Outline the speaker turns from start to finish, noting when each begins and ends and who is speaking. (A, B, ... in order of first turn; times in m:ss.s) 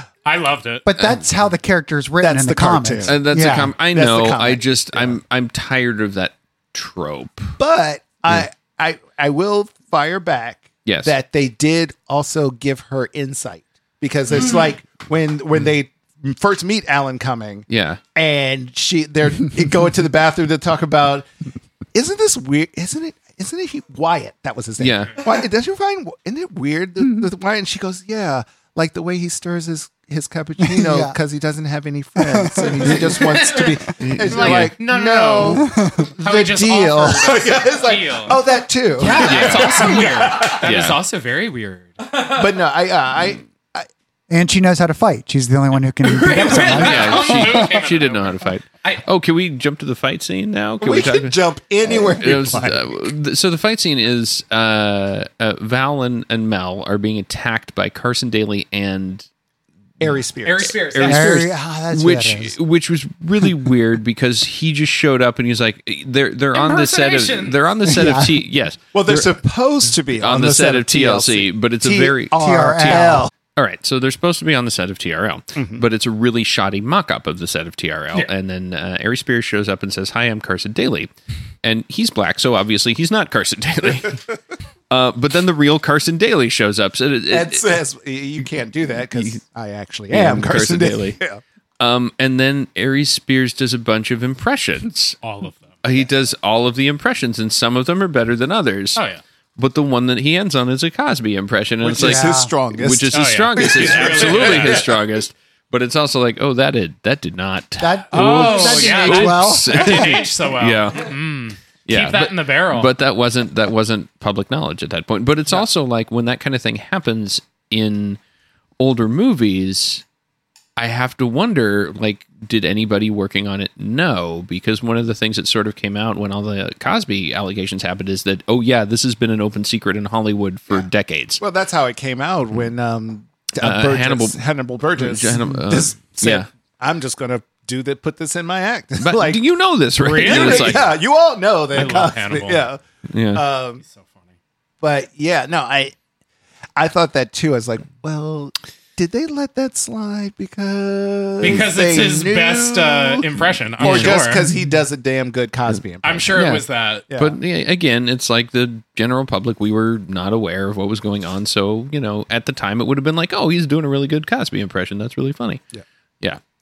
0:00.2-0:00.8 A
0:00.8-0:03.7 B
0:01.0-0:01.2 C
0:02.2-0:05.2 D
0:03.1-0:07.6 C
0:07.6-0:21.3 D
0:10.8-0:11.2 C
0:17.7-0:18.0 C
0:21.9-0:40.7 D
0:24.8-0:25.2 C
0:27.0-0:27.3 B
0:30.6-0:31.2 B
0:32.2-0:33.1 B
0:32.9-0:42.2 A
0:34.0-0:34.8 C
0:35.6-0:36.1 B
0:39.0-0:41.0 C
0:42.2-0:43.9 D
0:44.3-0:47.7 B
0:46.1-0:49.0 A
0:46.5-0:59.3 C
0:50.8-0:53.0 D
1:00.0-1:01.2 D
1:00.4-1:01.4 A
1:00.9-1:09.4 C
1:01.0-1:02.6 B
1:06.5-1:07.6 A
1:07.9-1:08.4 B
1:08.9-1:13.3 D
1:10.1-1:13.0 C
1:12.3-1:13.3 B
1:13.6-1:21.1 C
1:15.6-1:15.8 D
1:21.6-1:24.3 C
1:24.9-1:27.7 C
1:27.3-1:31.4 D
1:29.1-1:29.4 C
1:30.1-1:31.2 C
1:31.8-1:35.2 C
1:35.2-1:35.8 A
1:35.8-1:39.0 C
1:39.0-1:39.2 A
1:39.6-1:51.2 C
1:41.8-1:44.9 D
1:42.0-1:42.5 B
1:43.1-1:44.9 A
1:47.8-1:50.2 B
1:48.1-1:52.9 A
1:51.9-1:58.2 C
1:58.8-2:00.0 C
2:00.8-2:11.4 C
2:11.4-2:19.5 D
2:13.6-2:14.4 C
2:14.9-2:16.5 C
2:19.0-2:20.9 C
2:20.0-2:20.9 A
2:20.1-2:22.8 D
2:21.7-2:22.7 A
2:23.1-2:23.4 C
2:23.3-2:23.8 D
2:23.8-2:24.2 A
2:24.8-2:26.0 D
2:26.8-2:36.4 D
2:31.4-2:34.4 A
2:33.8-2:34.3 C
2:36.0-2:37.1 A
2:36.3-2:45.6 C
2:37.1-2:37.4 D